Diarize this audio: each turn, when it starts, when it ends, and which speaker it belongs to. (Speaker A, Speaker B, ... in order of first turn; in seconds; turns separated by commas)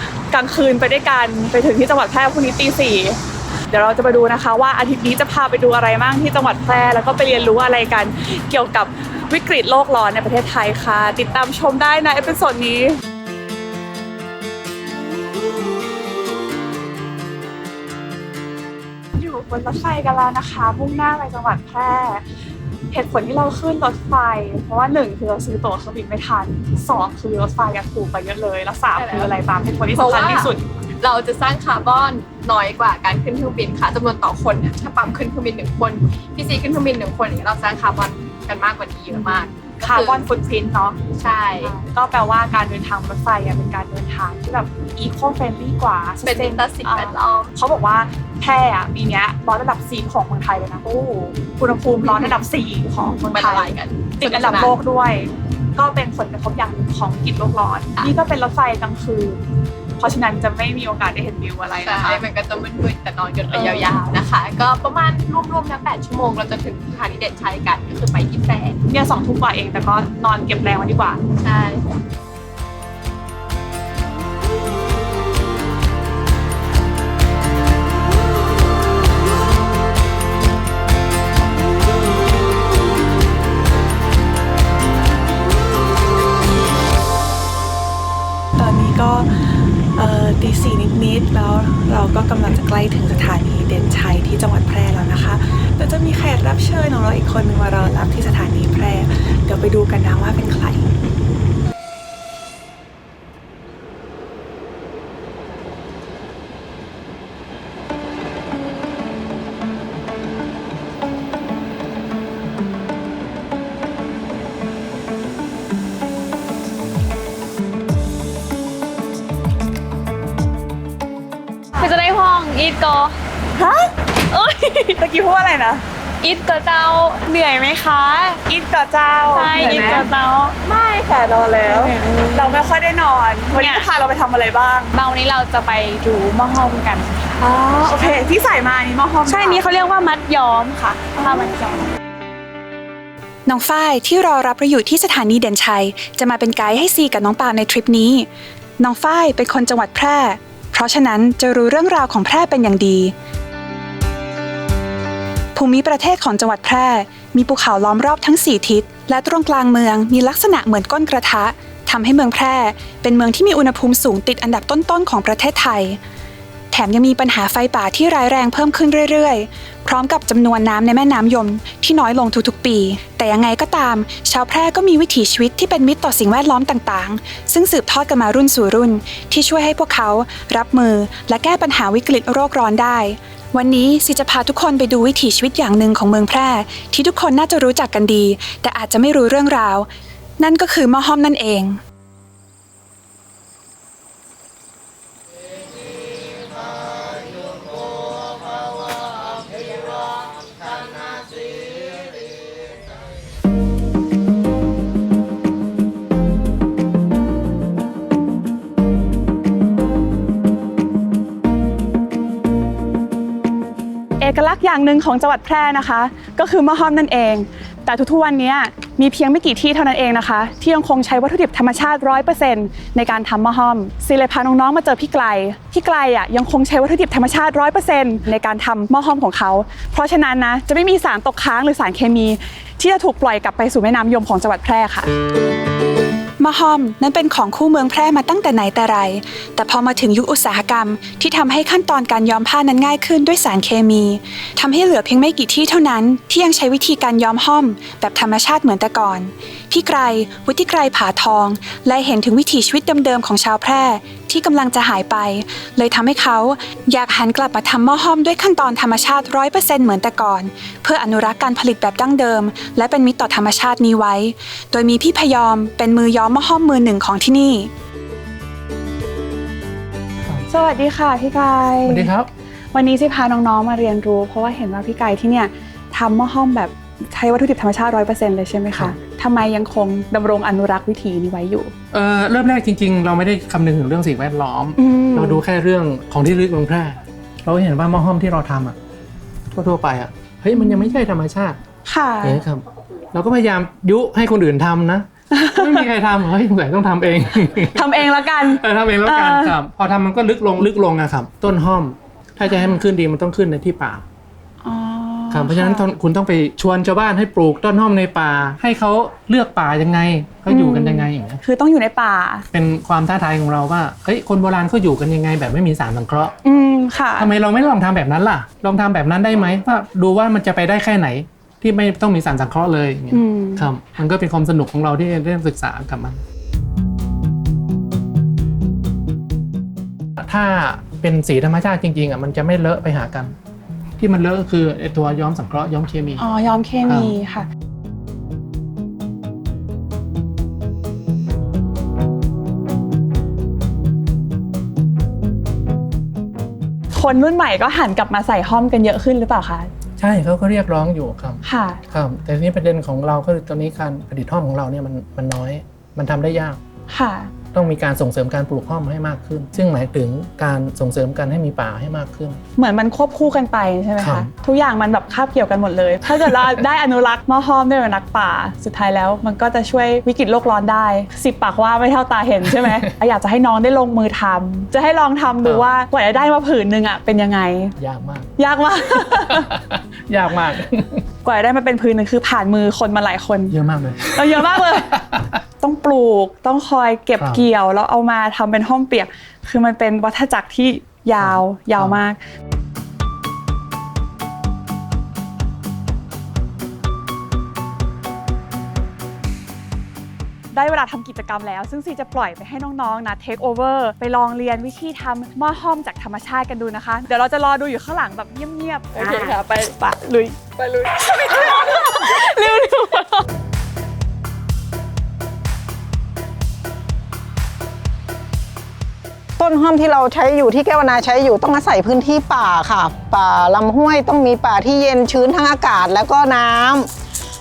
Speaker A: 0.3-3.2, Speaker A: 3.7-13.0, Speaker A: 19.1-22.2, Speaker A: 22.9-30.6, Speaker B: 29.0-29.3, Speaker B: 29.9-40.2, Speaker A: 39.1-41.0, Speaker B: 41.2-41.7, Speaker A: 41.6-59.4, Speaker B: 46.2-47.5, Speaker B: 53.3-54.8, Speaker A: 60.0-62.3, Speaker B: 61.8-68.8, Speaker A: 63.5-64.0, Speaker A: 68.9-71.2, Speaker B: 71.4-72.0, Speaker A: 88.6-89.3, Speaker A: 90.0-92.5, Speaker C: 92.1-95.3, Speaker A: 95.3-98.7, Speaker C: 95.8-96.5, Speaker C: 97.2-99.0, Speaker A: 99.5-100.8, Speaker C: 99.6-100.3, Speaker D: 121.8-123.2, Speaker A: 123.6-123.9, Speaker D: 124.3-125.0, Speaker A: 125.0-125.8, Speaker D: 126.2-128.4, Speaker A: 128.4-130.4, Speaker D: 129.3-130.8, Speaker A: 131.1-134.9, Speaker D: 131.6-132.7, Speaker D: 133.5-133.9, Speaker D: 134.9-137.3, Speaker A: 137.4-139.7, Speaker D: 137.8-138.2, Speaker D: 139.3-141.5, Speaker A: 141.1-141.8, Speaker C: 143.5-153.1, Speaker C: 155.6-166.0, Speaker C: 166.7-191.8, Speaker A: 214.2-235.1, Speaker C: 236.4-267.7, Speaker A: 270.5-272.1, Speaker E: 271.9-272.3, Speaker A: 272.7-281.7, Speaker E: 281.9-288.8, Speaker A: 284.8-285.4, Speaker E: 289.5-291.6, Speaker A: 290.6-291.0, Speaker A: 291.9-292.4, Speaker E: 292.2-297.9, Speaker A: 295.3-295.9, Speaker A: 297.7-299.6, Speaker E: 298.6-304.0, Speaker A: 304.6-305.9, Speaker E: 305.3-311.4, Speaker A: 310.5-312.5, Speaker E: 312.5-316.3, Speaker A: 316.4-317.3, Speaker E: 317.2-326.2, Speaker A: 323.1-323.7, Speaker E: 330.2-333.3, Speaker E: 334.0-336.3, Speaker A: 336.2-337.5, Speaker E: 336.9-337.1, Speaker A: 346.9-349.7, Speaker E: 350.0-356.6, Speaker A: 351.4-351.8, Speaker A: 356.9-357.3, Speaker E: 357.5-362.4, Speaker A: 362.6-377.7, Speaker E: 364.0-364.3, Speaker E: 377.8-378.3, Speaker A: 378.4-379.5, Speaker E: 379.0-381.0, Speaker A: 381.2-383.6, Speaker E: 383.5-385.2, Speaker A: 384.1-385.0, Speaker A: 385.6-392.2, Speaker E: 387.2-387.4, Speaker E: 391.2-392.0, Speaker A: 400.5-409.4, Speaker D: 408.9-413.2, Speaker F: 419.4-426.9